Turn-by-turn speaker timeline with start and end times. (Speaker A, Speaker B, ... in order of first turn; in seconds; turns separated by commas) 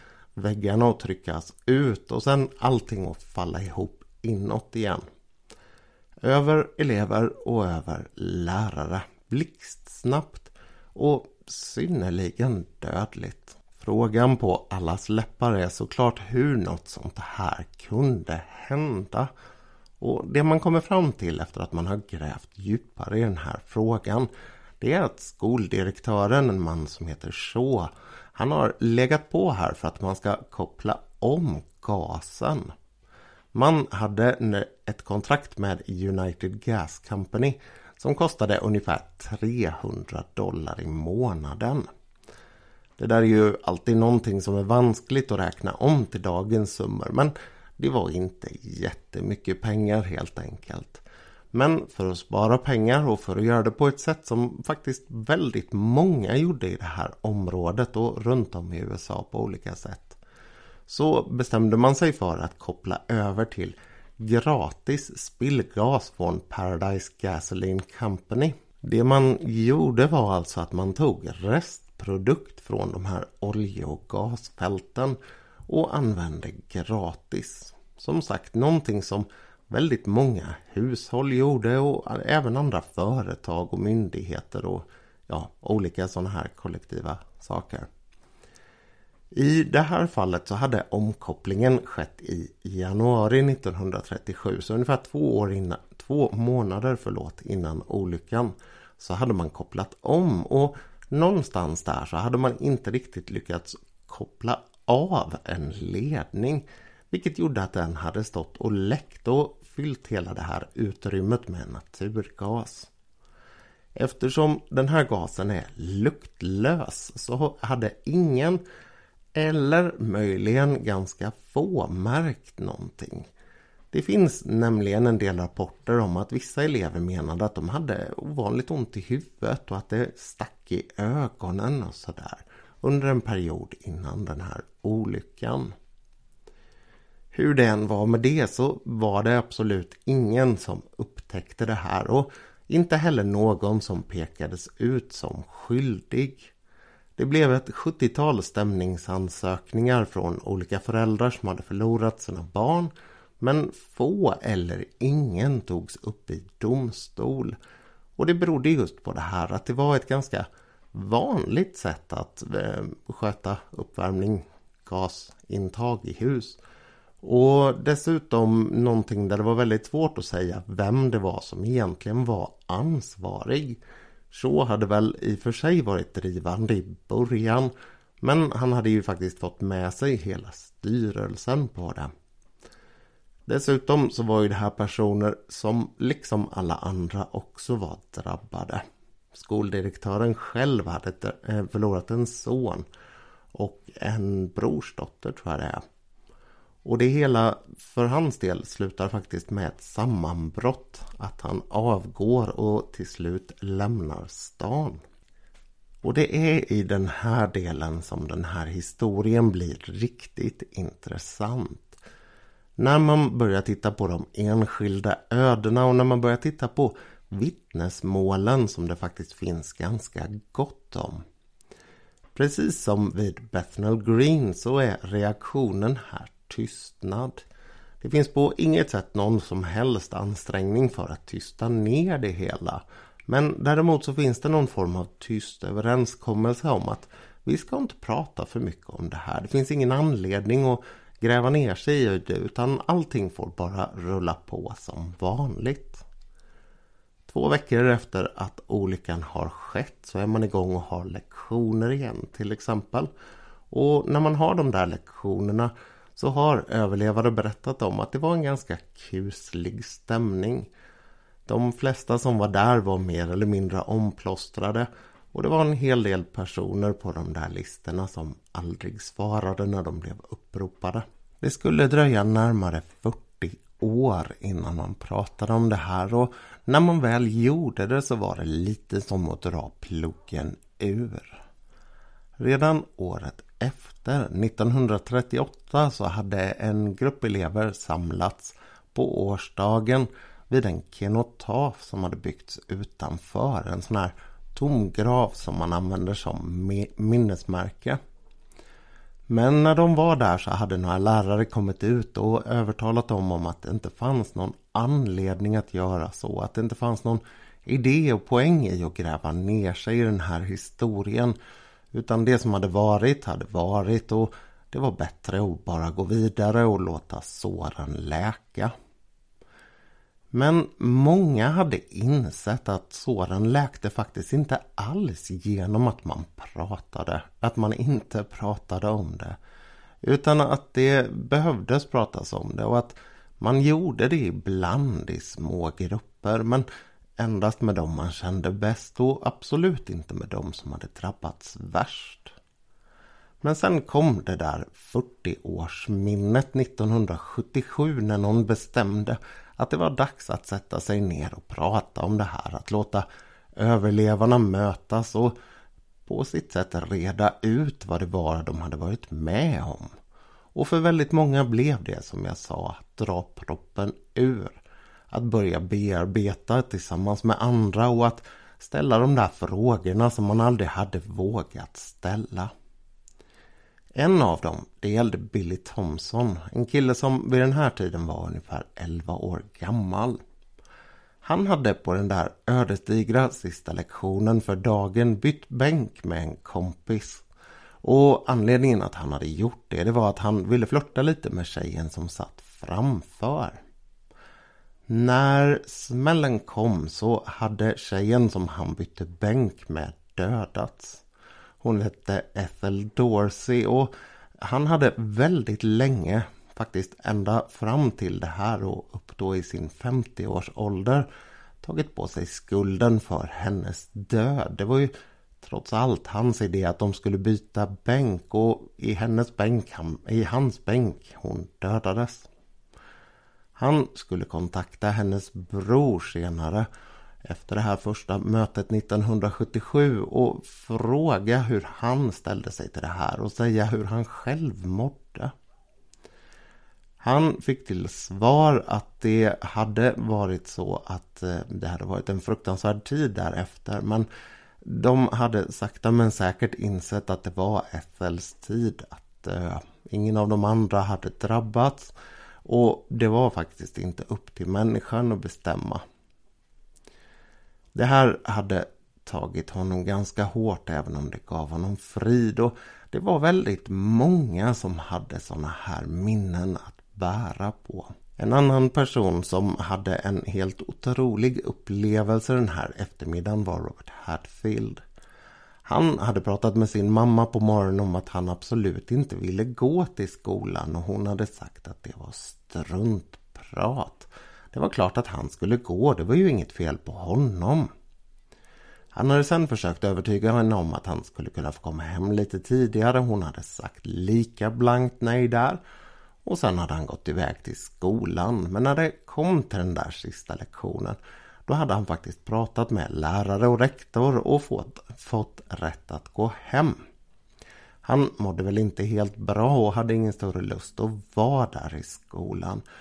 Speaker A: 0.4-5.0, Speaker A: 6.2-19.3, Speaker A: 20.0-24.3, Speaker A: 24.8-32.7, Speaker A: 33.5-41.9, Speaker A: 43.0-60.2, Speaker A: 60.9-75.2, Speaker A: 75.7-87.9, Speaker A: 89.3-112.9, Speaker A: 114.0-118.6, Speaker A: 119.3-123.3, Speaker A: 123.9-135.7, Speaker A: 137.3-146.5, Speaker A: 147.2-157.6, Speaker A: 158.2-166.6, Speaker A: 167.2-173.8, Speaker A: 174.3-182.1, Speaker A: 183.5-188.8, Speaker A: 189.3-192.8, Speaker A: 193.5-195.8, Speaker A: 196.8-205.0, Speaker A: 206.0-212.0, Speaker A: 212.8-221.2, Speaker A: 222.3-227.4, Speaker A: 228.0-246.0, Speaker A: 247.3-253.1, Speaker A: 253.7-260.7, Speaker A: 261.4-281.4, Speaker A: 282.4-298.0, Speaker A: 299.3-311.3, Speaker A: 311.9-318.7, Speaker A: 320.3-329.4, Speaker A: 330.0-336.6, Speaker A: 337.2-342.3, Speaker A: 343.4-353.1, Speaker A: 353.6-355.3, Speaker A: 356.1-359.9, Speaker A: 360.5-364.6, Speaker A: 365.1-372.5, Speaker A: 374.0-380.2, Speaker A: 381.2-387.2, Speaker A: 387.8-393.6, Speaker A: 394.9-401.0, Speaker A: 401.6-411.1, Speaker A: 411.6-422.3, Speaker A: 423.6-426.7, Speaker A: 427.2-435.3, Speaker A: 437.0-444.1, Speaker A: 444.6-451.9, Speaker A: 452.4-455.8, Speaker A: 457.7-474.8, Speaker A: 475.6-487.7, Speaker A: 488.9-495.6, Speaker A: 496.2-506.8, Speaker A: 507.8-512.6